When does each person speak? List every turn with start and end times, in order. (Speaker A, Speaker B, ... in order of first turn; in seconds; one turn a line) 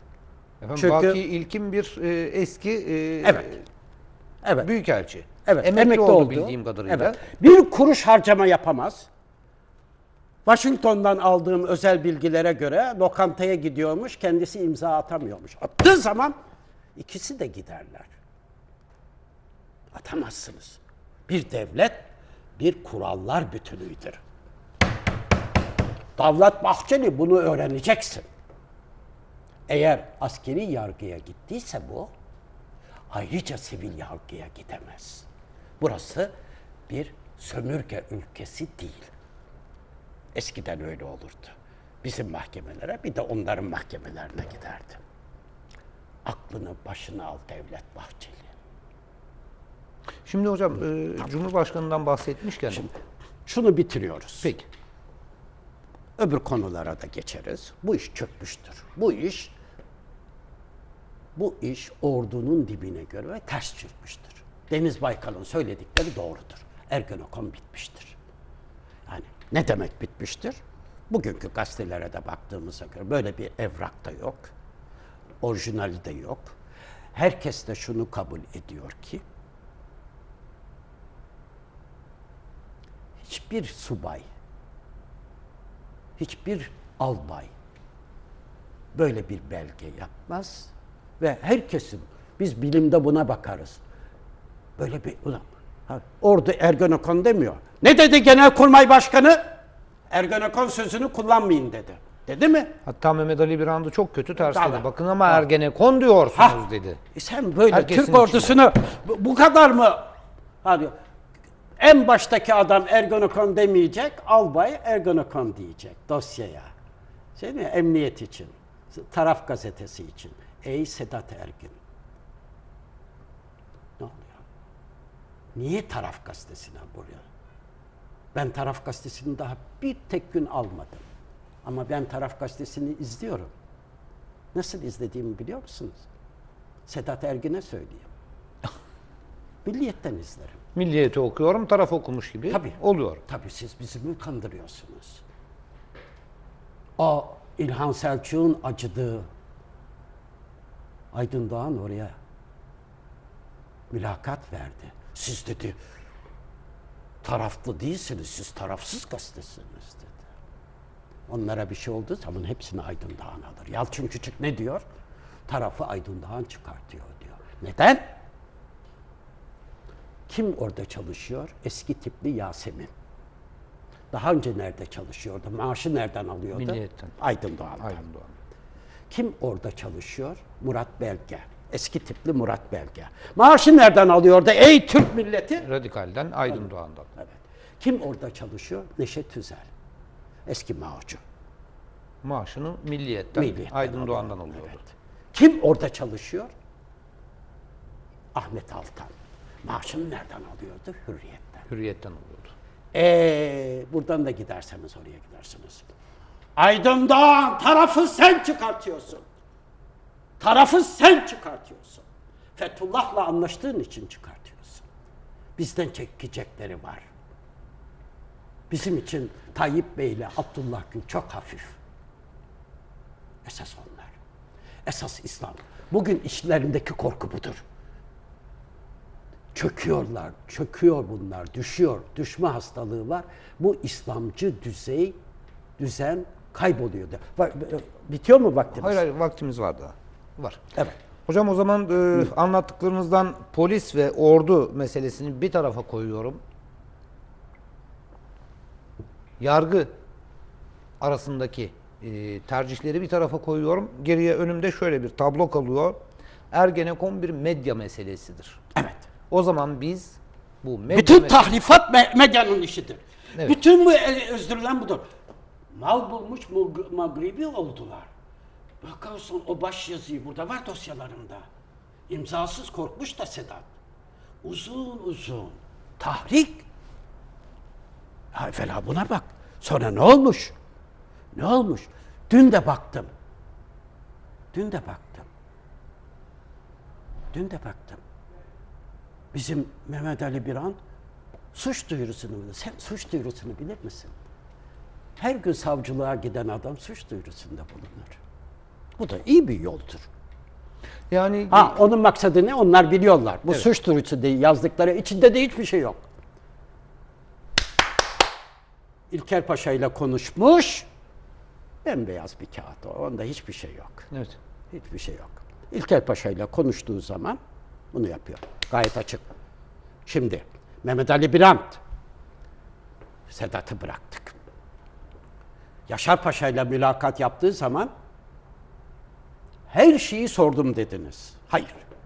Speaker A: 0.6-3.6
Speaker B: 0.8-1.2
Speaker B: 3.2-3.5
Speaker A: 4.6-7.2
Speaker B: 5.5-9.1
Speaker B: 10.5-16.3
Speaker B: 17.0-18.1
Speaker B: 19.9-24.2
Speaker B: 26.2-28.2
Speaker B: 29.7-32.1
Speaker B: 33.1-35.3
Speaker B: 35.8-36.3
Speaker B: 36.9-39.1
Speaker B: 40.4-45.0
Speaker B: 46.2-48.5
Speaker A: 50.3-52.9
Speaker B: 53.5-54.5
Speaker B: 56.2-59.5
Speaker B: 61.4-68.2
Speaker B: 69.1-70.6
Speaker B: 71.1-74.5
Speaker B: 75.4-76.6
Speaker B: 77.1-79.2
Speaker B: 83.2-84.2
Speaker B: 86.2-87.5
Speaker B: 89.0-93.8
Speaker B: 94.8-99.4
Speaker B: 100.1-102.7
Speaker A: 102.8-107.0
Speaker B: 104.5-104.8
Speaker B: 107.1-110.1
Speaker A: 107.7-108.6
Speaker B: 110.6-110.9
Speaker B: 111.8-116.7
Speaker B: 117.4-121.8
Speaker B: 124.0-124.4
Speaker B: 125.5-127.3
Speaker B: 128.3-131.0
Speaker B: 131.6-133.5
Speaker B: 134.5-136.0
Speaker B: 136.9-138.1
Speaker B: 139.7-140.6
Speaker A: 140.8-143.2
Speaker B: 142.5-145.2
Speaker B: 147.0-149.3
Speaker B: 151.1-152.2
Speaker B: 153.9-155.8
Speaker B: 157.2-160.2
Speaker B: 161.3-164.8
Speaker B: 165.5-168.1
Speaker B: 170.3-172.9
Speaker B: 174.1-178.0
Speaker A: 176.5-177.1
Speaker A: 177.8-178.3
Speaker B: 179.1-185.7
Speaker A: 185.6-187.1
Speaker B: 187.2-189.7
Speaker B: 190.5-191.2
Speaker A: 192.2-194.8
Speaker B: 193.3-196.5
Speaker B: 198.3-199.1
Speaker B: 199.6-201.7
Speaker A: 201.7-202.5
Speaker B: 202.9-205.9
Speaker B: 206.6-209.2
Speaker B: 210.4-212.1
Speaker B: 212.6-214.8
Speaker B: 215.6-217.1
Speaker B: 218.7-221.8
Speaker B: 223.4-224.2
Speaker B: 224.9-227.6
Speaker B: 229.5-235.2
Speaker B: 235.8-239.0
Speaker A: 238.7-240.8
Speaker A: 241.3-246.4
Speaker A: 249.4-249.9
Speaker A: 251.0-256.0
Speaker A: 256.5-258.6
Speaker B: 258.8-259.1
Speaker A: 259.3-261.6
Speaker B: 260.9-265.0
Speaker B: 265.7-268.1
Speaker B: 268.8-271.5
Speaker B: 272.1-273.7
Speaker B: 274.4-276.7
Speaker B: 278.3-280.5
Speaker B: 281.3-283.1
Speaker B: 284.5-285.3
Speaker B: 287.3-288.0
Speaker B: 289.3-290.8
Speaker B: 291.5-294.1
Speaker B: 295.2-298.2
Speaker B: 299.0-300.1
Speaker A: 301.1-301.8
Speaker B: 301.5-306.0
Speaker B: 309.1-310.9
Speaker B: 311.8-314.1
Speaker A: 314.1-314.4
Speaker B: 314.7-317.4
Speaker B: 317.9-319.2
Speaker B: 320.1-321.8
Speaker B: 323.3-324.4
Speaker B: 325.9-327.9
Speaker B: 329.7-331.8